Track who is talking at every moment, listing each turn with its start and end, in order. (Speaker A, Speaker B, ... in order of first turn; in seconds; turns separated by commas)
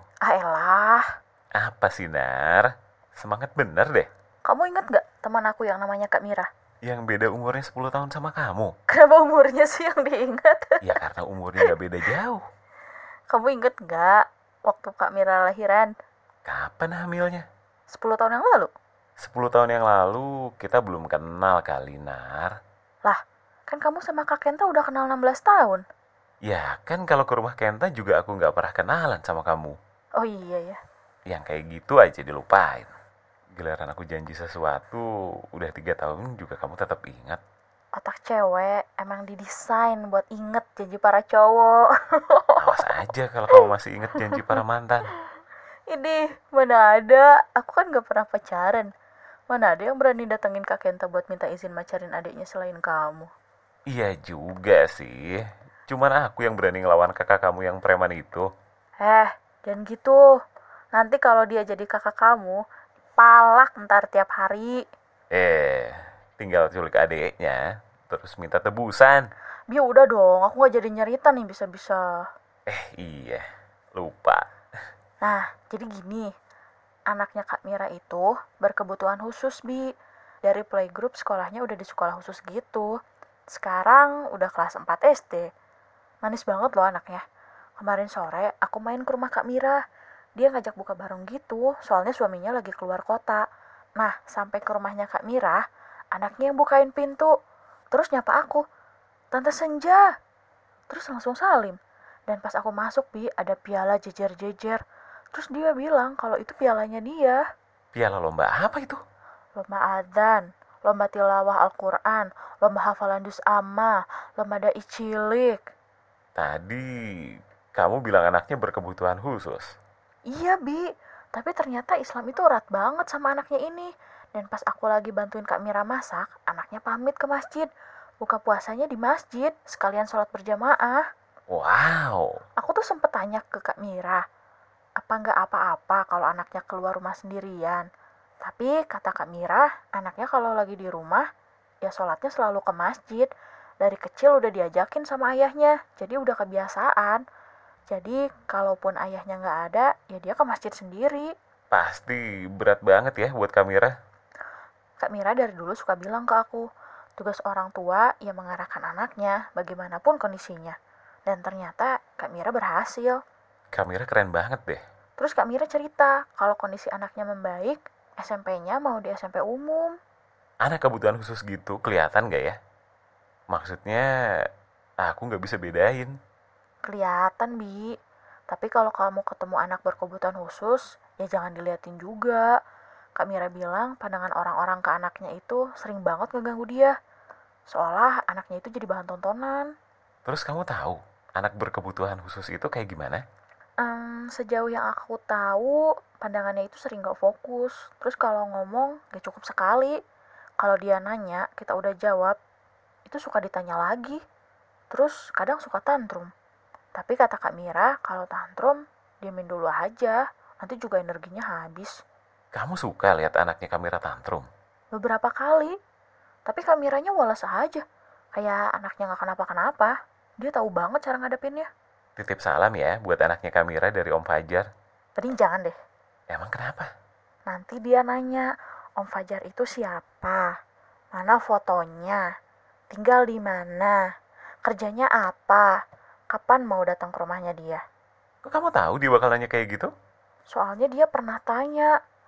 Speaker A: 0.2-1.0, Speaker B: 1.6-4.1, Speaker A: 4.4-6.5, Speaker B: 6.8-8.7, Speaker A: 8.9-10.9, Speaker B: 10.8-12.4, Speaker A: 13.3-15.9, Speaker B: 16.4-17.4, Speaker A: 17.9-18.7, Speaker B: 19.2-22.5, Speaker A: 23.1-25.8, Speaker B: 26.4-29.8, Speaker A: 30.2-30.8, Speaker B: 31.3-32.9, Speaker B: 33.5-37.4, Speaker A: 38.0-42.9, Speaker B: 42.6-45.1, Speaker A: 43.5-44.6, Speaker A: 45.9-48.9, Speaker A: 49.5-53.3, Speaker B: 53.9-58.5, Speaker A: 59.0-60.2, Speaker A: 60.9-62.6, Speaker A: 63.2-64.8, Speaker B: 65.3-69.3, Speaker A: 69.7-72.2, Speaker B: 72.7-74.4, Speaker A: 75.2-76.3, Speaker A: 77.1-79.8, Speaker A: 80.4-82.9, Speaker A: 83.5-85.5, Speaker A: 86.2-87.2, Speaker A: 87.8-89.8, Speaker A: 90.4-93.4, Speaker A: 94.0-95.6, Speaker A: 96.1-97.3, Speaker A: 97.9-98.6, Speaker A: 99.3-100.0, Speaker A: 100.9-104.8, Speaker A: 105.3-107.4, Speaker B: 107.9-109.0, Speaker A: 109.5-115.6, Speaker B: 116.4-116.8, Speaker B: 117.8-119.7, Speaker A: 120.3-120.8, Speaker A: 121.3-127.7, Speaker A: 128.2-131.1, Speaker B: 131.5-132.4, Speaker A: 132.6-134.2, Speaker A: 135.0-137.9, Speaker A: 138.4-141.2, Speaker A: 141.8-143.3, Speaker A: 143.8-147.2, Speaker A: 147.9-151.3, Speaker B: 151.7-153.9, Speaker A: 155.0-156.7, Speaker A: 157.2-160.8, Speaker A: 161.3-163.2, Speaker B: 163.7-164.8, Speaker A: 165.2-170.0, Speaker B: 170.6-172.6, Speaker B: 173.5-174.1, Speaker B: 175.0-176.1, Speaker A: 176.9-177.9, Speaker A: 178.5-182.5, Speaker A: 183.2-186.9, Speaker A: 187.7-189.7, Speaker B: 190.3-193.2, Speaker A: 193.8-199.9, Speaker A: 200.6-202.4, Speaker A: 203.1-204.2, Speaker A: 204.9-206.3, Speaker A: 207.0-211.9, Speaker B: 212.5-214.5, Speaker A: 214.9-215.7, Speaker A: 216.5-217.8, Speaker A: 218.3-221.7, Speaker B: 222.2-224.7, Speaker A: 225.2-225.8, Speaker B: 226.3-226.8, Speaker A: 227.5-228.5, Speaker A: 229.0-230.5, Speaker A: 231.1-232.2, Speaker A: 232.9-234.0, Speaker A: 234.7-235.7, Speaker A: 236.3-237.8, Speaker B: 238.4-239.9, Speaker A: 240.5-241.9